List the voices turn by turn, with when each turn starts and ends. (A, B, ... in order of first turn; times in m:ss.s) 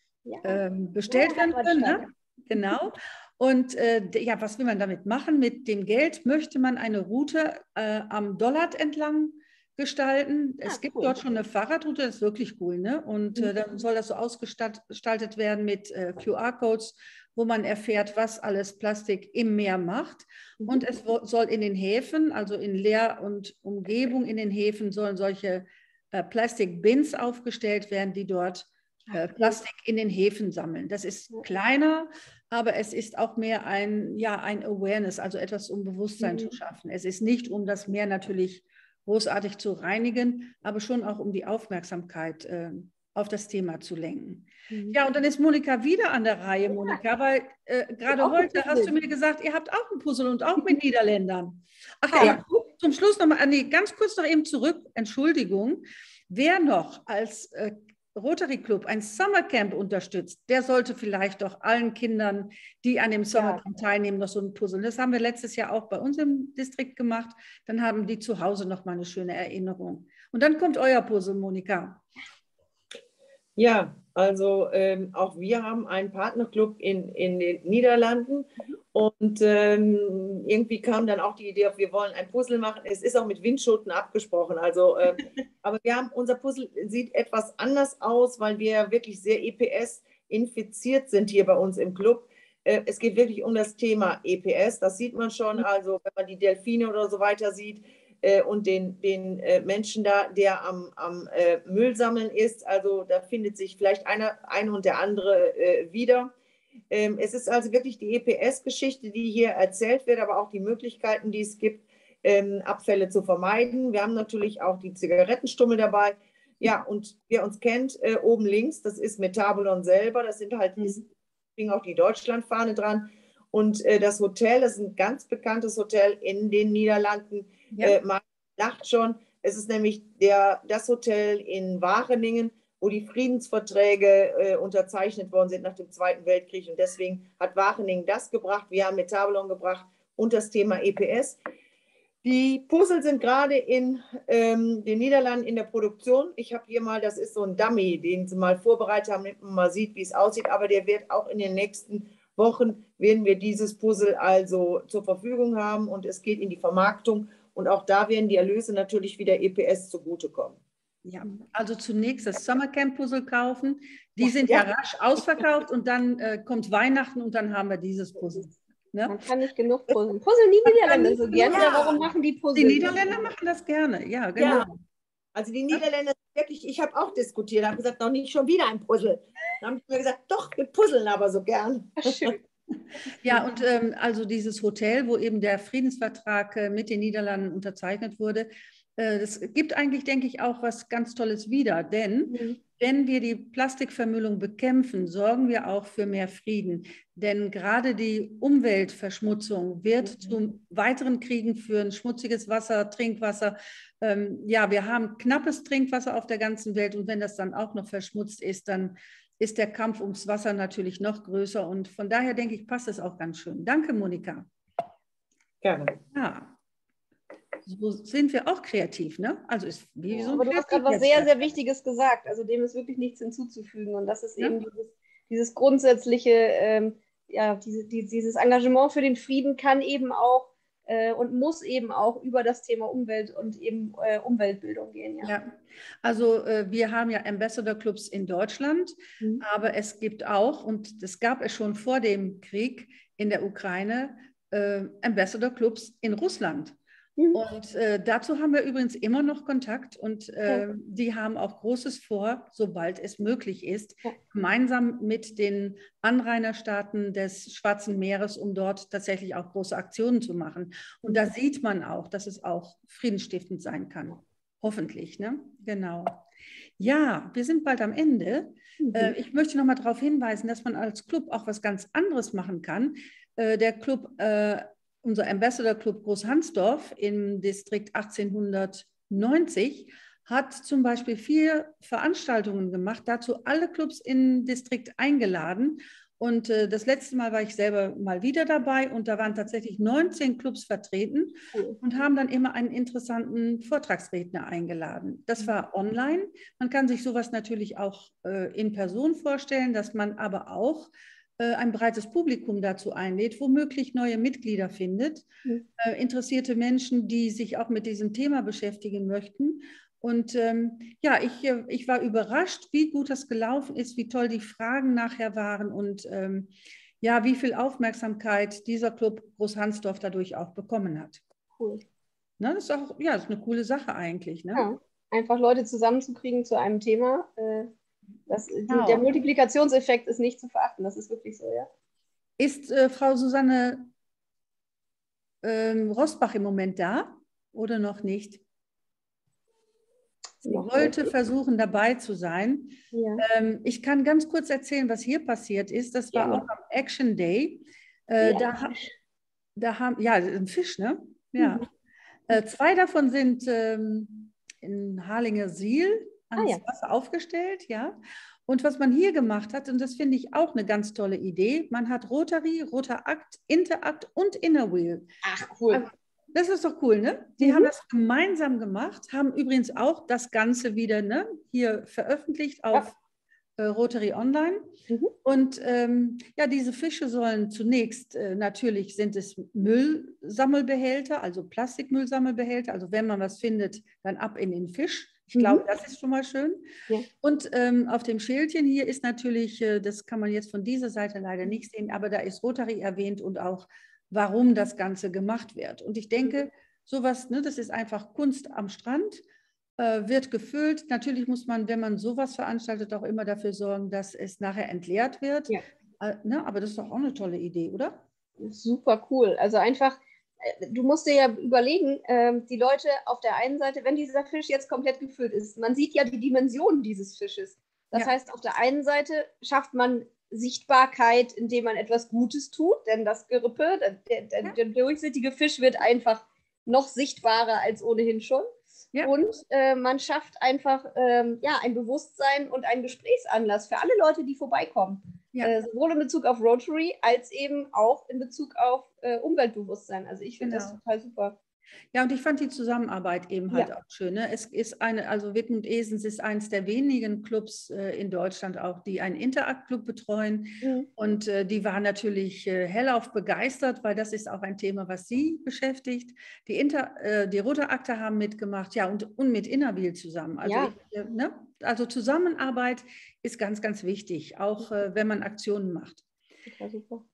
0:00.2-0:02.1 A
0:00.4-1:12.0 B
0:10.6-0:11.2 A
0:29.1-0:29.6 A
0:36.2-0:36.6 A
0:44.7-0:45.0 A
0:48.1-0:48.9 A
0:52.1-0:52.7 A
1:03.4-1:03.6 A
1:13.6-1:46.3 C
1:46.9-2:01.0 C
2:01.6-2:21.4 C
2:22.2-2:40.6 C
2:41.0-2:49.2 B
2:49.1-2:53.2 A
2:50.8-2:52.0 B
2:51.4-2:51.7 C
2:52.6-2:54.7 B
2:55.4-3:02.3 C
3:02.0-3:02.4 A
3:03.2-3:34.5 B
3:12.3-3:12.6 A
3:35.6-3:36.0 C
3:36.1-3:36.6 B
3:37.7-3:41.5 B
3:40.1-3:55.3 A
3:55.2-4:06.8 B
4:07.3-4:26.2 B
4:26.8-5:05.3 B
4:28.8-4:29.1 A
4:51.5-4:51.8 A
5:05.8-5:21.2 B
5:21.6-5:21.8 A
5:22.4-5:24.7 B
5:24.6-5:27.7 A
5:28.3-5:31.7 A
5:28.7-5:29.0 B
5:32.4-5:33.9 B
5:35.4-5:38.4 B
5:40.4-5:48.8 B
5:40.4-5:41.1 A
5:42.9-5:43.2 A
5:46.2-5:46.5 A
5:48.2-5:48.9 A
5:49.6-5:51.6 B
5:51.4-5:51.6 A
5:52.3-5:58.0 B
5:58.5-6:05.1 B
6:05.2-6:05.8 A
6:05.7-6:13.0 B
6:07.4-6:07.7 A
6:13.6-6:14.7 B
6:15.2-6:26.7 B
6:25.4-6:25.6 A
6:27.2-6:39.2 B
6:39.8-6:48.0 B
6:48.4-7:08.5 A
7:09.0-7:21.4 A
7:20.4-7:20.8 B
7:21.9-7:46.0 B
7:30.6-7:30.9 A
7:40.5-7:40.8 A
7:46.5-7:47.0 A